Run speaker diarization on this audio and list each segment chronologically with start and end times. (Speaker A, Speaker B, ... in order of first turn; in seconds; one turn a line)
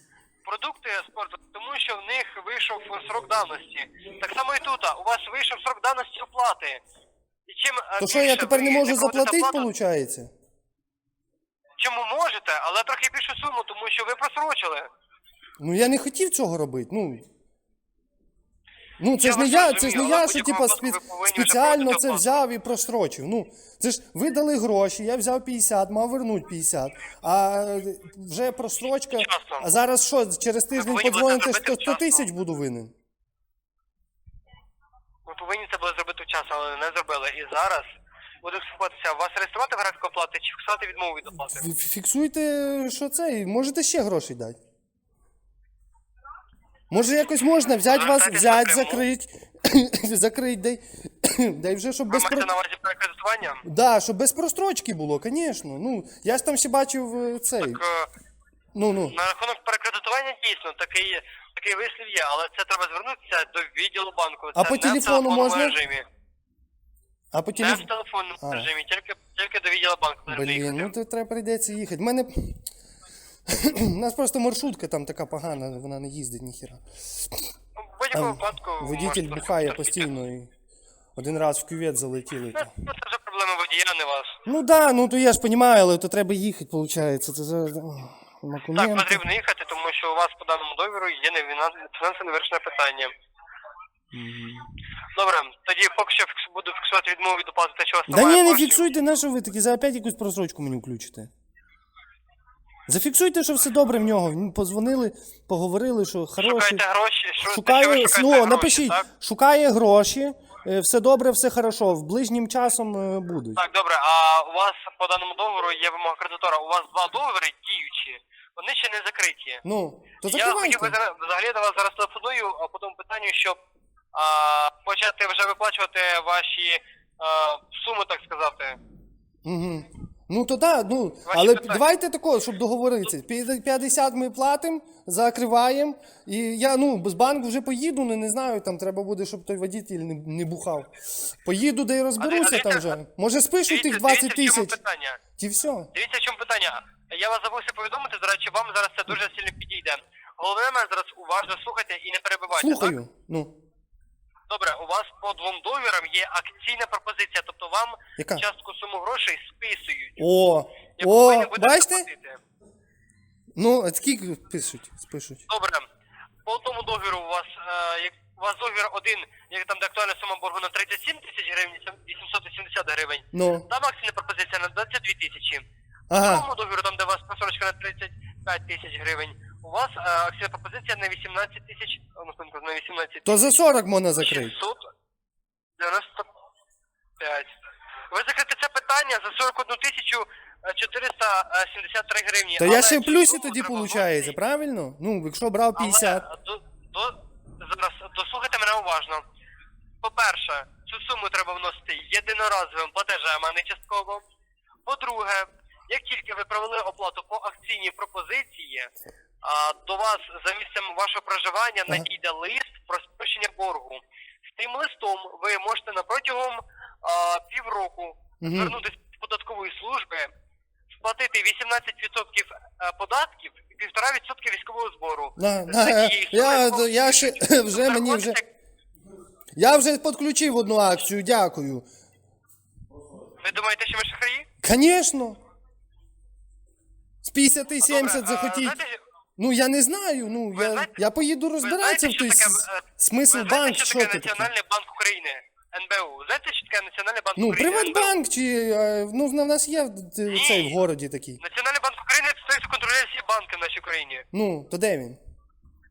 Speaker A: 0.4-6.8
Speaker A: 7.5-9.7
Speaker B: 8.0-10.3
Speaker A: 11.8-14.9
Speaker B: 15.6-17.2
Speaker B: 19.0-32.9
Speaker A: 19.2-22.4
Speaker A: 29.1-29.7
Speaker A: 30.7-32.3
Speaker A: 35.2-37.9
Speaker A: 38.4-41.7
Speaker B: 41.5-44.6
Speaker B: 46.9-52.5
Speaker A: 47.9-49.0
Speaker A: 52.1-53.6
Speaker B: 53.6-57.8
Speaker A: 57.6-58.1
Speaker B: 58.7-59.1
Speaker A: 59.1-66.0
Speaker B: 64.5-65.8
Speaker B: 67.3-67.9
Speaker A: 67.6-70.9
Speaker B: 68.4-68.7
Speaker B: 70.3-72.6
Speaker B: 73.5-77.4
Speaker A: 77.8-80.1
Speaker B: 78.1-80.5
Speaker B: 81.2-82.7
Speaker A: 82.5-84.4
Speaker B: 84.5-89.2
Speaker A: 88.7-93.1
Speaker B: 94.1-94.7
Speaker A: 95.1-98.8
Speaker B: 98.1-101.3
Speaker B: 102.9-106.8
Speaker A: 106.4-109.0
Speaker B: 107.4-113.6
Speaker A: 113.6-119.6
Speaker B: 119.6-121.0
Speaker A: 120.2-123.6
Speaker A: 124.1-128.8
Speaker B: 129.4-144.8
Speaker A: 131.3-131.9
Speaker A: 142.2-142.9
Speaker A: 143.7-145.2
Speaker B: 145.4-145.9
Speaker A: 145.9-153.0
Speaker B: 152.5-153.5
Speaker A: 154.5-160.2
Speaker B: 158.2-158.4
Speaker B: 160.2-162.1
Speaker A: 161.0-162.4
Speaker B: 163.6-165.4
Speaker A: 165.5-165.9
Speaker A: 166.4-183.4
Speaker B: 173.3-173.7
Speaker B: 176.1-176.5
Speaker B: 183.2-184.6
Speaker A: 184.2-184.9
Speaker A: 185.8-186.3
Speaker A: 187.2-187.5
Speaker A: 188.1-194.3
Speaker B: 192.6-196.2
Speaker A: 195.8-199.2
Speaker A: 200.0-204.2
Speaker A: 204.8-208.9
Speaker A: 209.4-220.3
Speaker B: 218.4-218.8
Speaker A: 221.0-228.4
Speaker B: 225.4-228.4
Speaker B: 229.6-231.8
Speaker A: 233.4-234.5
Speaker B: 234.6-235.4
Speaker B: 237.2-238.8
Speaker A: 237.8-239.0
Speaker B: 239.4-244.5
Speaker A: 240.5-240.9
Speaker A: 241.6-248.1
Speaker B: 247.4-251.4
Speaker A: 250.3-250.8
Speaker A: 251.4-254.2
Speaker B: 254.3-255.2